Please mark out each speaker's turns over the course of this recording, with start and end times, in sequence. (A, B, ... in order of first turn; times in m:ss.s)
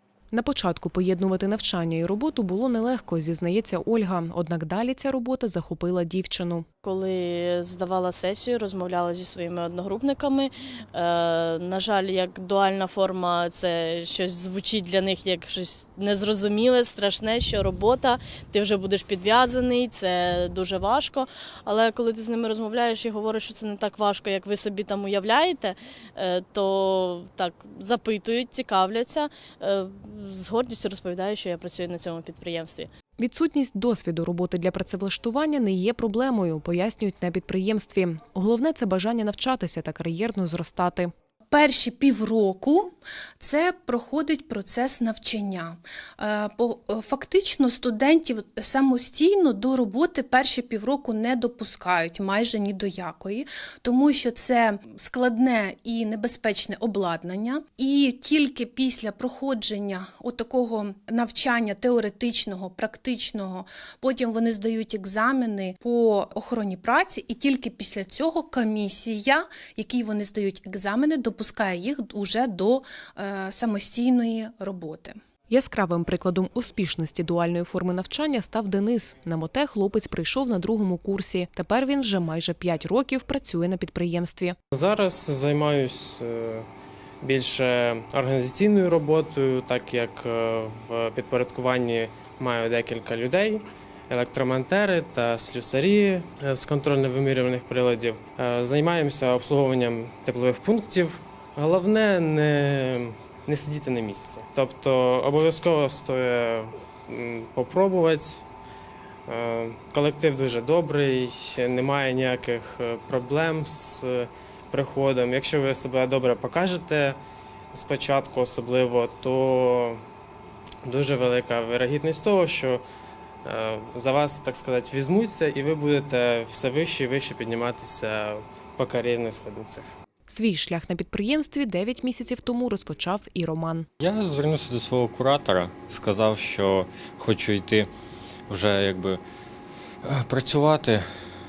0:00.3-0:06.6 A
0:06.8-0:32.9 B
0:33.2-0:41.1 A
0:41.5-1:15.2 C
1:15.5-1:24.6 A
1:24.7-1:26.7 D
1:27.2-1:48.4 D
1:49.3-1:57.2 D
1:57.7-2:00.0 D
2:00.8-2:02.8 D
2:03.4-2:09.9 D
2:10.3-2:13.9 A
2:14.0-2:17.9 E
2:18.5-2:19.2 E
2:20.0-2:21.0 E